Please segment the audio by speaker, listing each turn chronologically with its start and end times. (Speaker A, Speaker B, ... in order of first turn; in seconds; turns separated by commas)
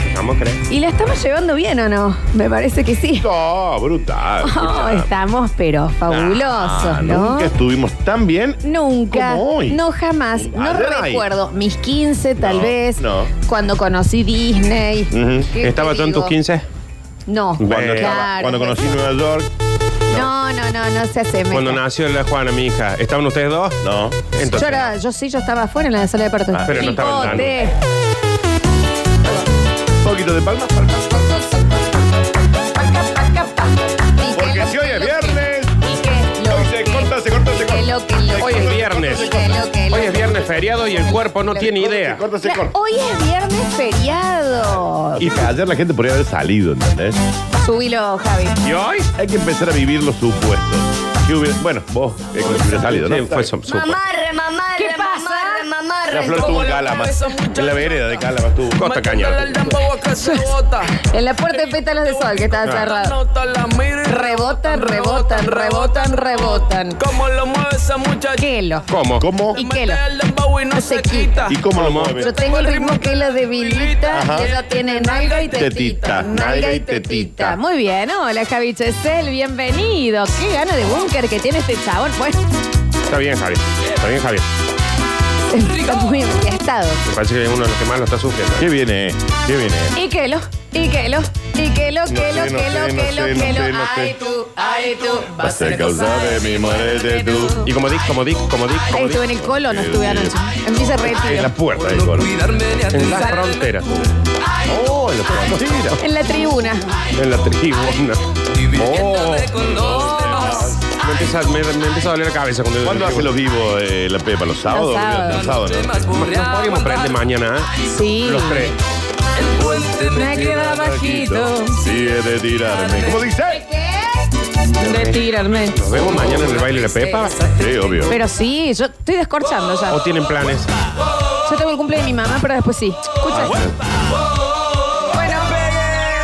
Speaker A: 0.1-0.6, Speaker B: 0.7-3.3, Speaker C: 3.2-5.1, Speaker B: 4.4-7.5, Speaker C: 6.1-9.8, Speaker B: 8.6-16.3, Speaker C: 10.3-11.3, Speaker C: 12.4-13.3, Speaker C: 15.1-15.5, Speaker A: 15.6-16.6, Speaker B: 17.3-19.0, Speaker A: 17.6-18.2, Speaker C: 17.6-19.5, Speaker B: 20.1-21.8, Speaker A: 21.5-23.8, Speaker C: 23.8-24.2, Speaker A: 24.3-24.9, Speaker B: 24.4-27.7, Speaker A: 26.6-27.6, Speaker C: 30.0-31.3, Speaker B: 31.2-31.6, Speaker B: 32.7-37.1, Speaker C: 34.3-35.9, Speaker C: 36.5-39.6, Speaker B: 37.6-41.7, Speaker A: 38.4-39.3, Speaker A: 39.9-42.2, Speaker C: 41.6-42.7, Speaker B: 42.4-45.3, Speaker C: 45.1-47.2, Speaker A: 45.2-45.5, Speaker B: 47.6-48.6, Speaker A: 48.6-49.1, Speaker C: 49.2-53.5, Speaker A: 52.8-54.0, Speaker D: 53.8-56.0, Speaker B: 54.7-55.7, Speaker C: 56.1-58.8, Speaker E: 56.2-58.2, Speaker A: 58.8-59.6, Speaker E: 58.8-61.0, Speaker B: 60.2-63.1, Speaker E: 61.6-68.5, Speaker A: 62.6-62.9, Speaker B: 64.1-67.0, Speaker B: 68.4-68.8, Speaker A: 68.9-69.2, Speaker C: 69.2-69.6, Speaker B: 69.5-70.0, Speaker E: 69.5-76.2, Speaker B: 70.7-71.4, Speaker C: 71.5-72.2, Speaker A: 71.7-72.2, Speaker B: 72.2-82.4, Speaker C: 74.1-74.5, Speaker C: 75.5-77.6, Speaker A: 83.1-84.5, Speaker B: 85.5-87.0, Speaker A: 87.0-88.7, Speaker C: 88.6-89.9, Speaker B: 89.9-97.6, Speaker C: 92.1-94.1, Speaker C: 95.4-97.6, Speaker A: 97.6-99.4, Speaker B: 98.9-101.5, Speaker C: 99.6-100.3, Speaker C: 101.0-102.3, Speaker E: 101.8-104.1, Speaker A: 102.9-104.0, Speaker C: 104.7-106.0, Speaker B: 106.0-106.8, Speaker A: 107.1-108.2, Speaker E: 108.5-110.7, Speaker C: 108.8-111.0, Speaker A: 108.8-109.5, Speaker B: 109.9-110.4, Speaker A: 111.0-113.3, Speaker C: 112.8-116.0, Speaker B: 114.7-115.5, Speaker E: 115.3-117.2, Speaker A: 116.1-118.7, Speaker B: 117.9-118.7, Speaker E: 119.3-121.1, Speaker B: 120.1-121.8, Speaker C: 120.7-123.6, Speaker E: 121.8-123.3, Speaker B: 123.5-127.3, Speaker A: 124.8-127.3, Speaker C: 127.5-128.1, Speaker B: 128.1-130.0, Speaker A: 129.9-130.7, Speaker B: 131.4-133.6, Speaker C: 133.3-133.7, Speaker B: 135.1-135.7, Speaker D: 135.6-136.1